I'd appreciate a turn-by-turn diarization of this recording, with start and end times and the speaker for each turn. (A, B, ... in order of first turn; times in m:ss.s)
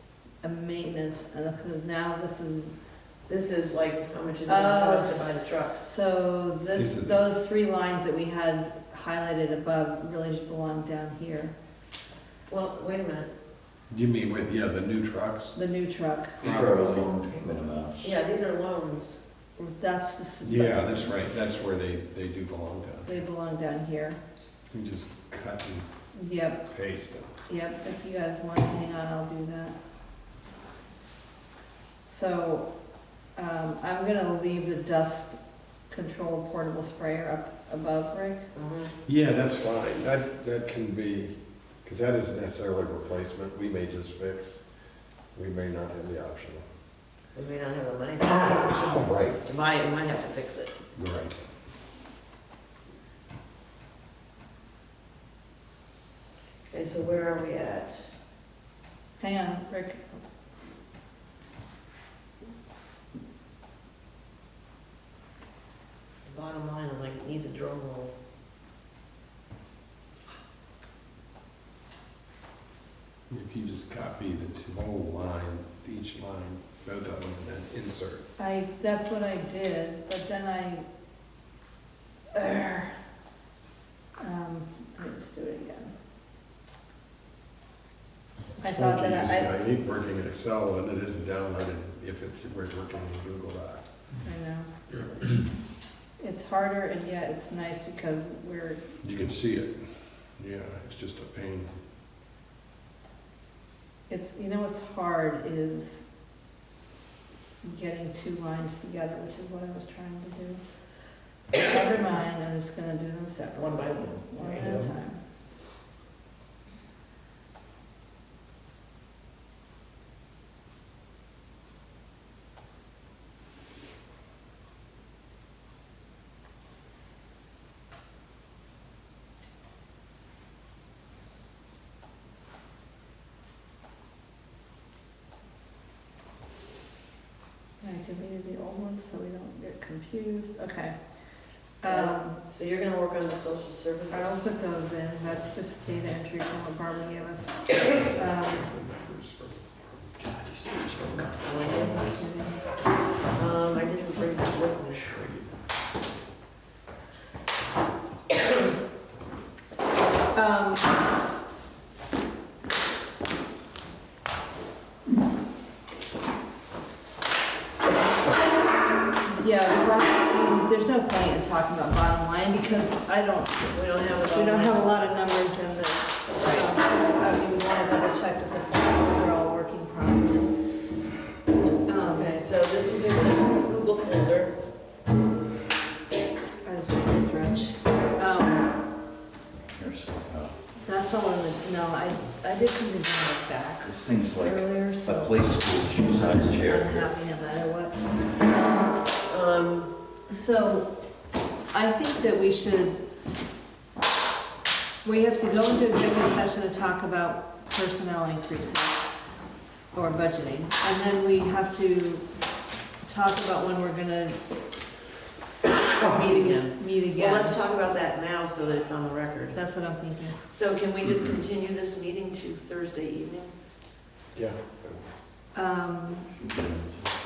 0:00.4-0:02.7 A
0:03.3-0:05.7 B
0:04.5-0:11.5 A
0:06.7-0:07.2 C
0:12.5-0:13.3 B
0:13.9-0:15.6 C
0:15.5-0:16.4 A
0:16.4-0:18.1 D
0:16.4-0:17.1 C
0:18.0-0:19.2 B
0:19.6-0:21.1 A
0:20.4-0:23.2 C
0:23.0-0:24.2 A
0:24.7-0:25.9 C
0:26.1-0:26.6 A
0:26.7-0:27.3 C
0:27.5-0:29.8 A
0:32.0-0:32.7 A
0:33.4-0:38.5 A
0:38.5-0:38.9 B
0:39.0-0:44.6 C
0:45.3-0:46.6 C
0:47.3-0:50.8 B
0:48.4-0:49.4 C
0:50.9-0:51.4 C
0:56.7-0:58.1 B
0:59.2-1:00.2 A
1:06.2-1:08.1 B
1:13.3-1:18.2 C
1:18.4-1:20.8 A
1:22.3-1:22.9 A
1:24.2-1:25.9 A
1:28.6-1:29.5 A
1:28.6-1:33.9 C
1:34.2-1:34.7 A
1:36.2-1:38.8 A
1:39.0-1:41.7 C
1:44.1-1:46.0 A
1:47.6-1:50.6 A
1:51.6-1:55.2 A
1:53.6-1:54.8 B
2:17.8-2:20.9 A
2:21.8-2:22.4 A
2:21.8-2:24.4 B
2:24.1-2:28.6 A
2:27.9-2:30.2 C
2:30.2-2:31.4 D
2:30.8-2:32.4 C
2:31.4-2:32.0 B
2:31.6-2:32.6 A
2:33.3-2:35.3 B
2:35.0-2:35.5 C
2:40.3-2:40.9 A
2:49.2-2:53.7 A
2:53.7-2:55.0 B
2:54.3-3:00.5 A
2:56.4-2:56.7 B
3:01.9-3:02.4 A
3:01.9-3:04.6 B
3:06.6-3:08.6 A
3:09.7-3:10.5 D
3:10.8-3:15.4 A
3:13.8-3:17.1 D
3:16.0-3:18.4 A
3:19.2-3:19.9 B
3:20.3-3:20.9 A
3:21.7-3:23.0 A
3:25.0-3:29.1 A
3:29.9-3:32.2 A
3:33.0-3:34.4 A
3:35.9-3:39.6 B
3:36.3-3:37.5 A
3:39.5-3:40.4 A
3:40.5-3:43.5 B
3:44.3-3:45.1 C
3:45.5-3:46.3 A
3:46.3-3:47.1 D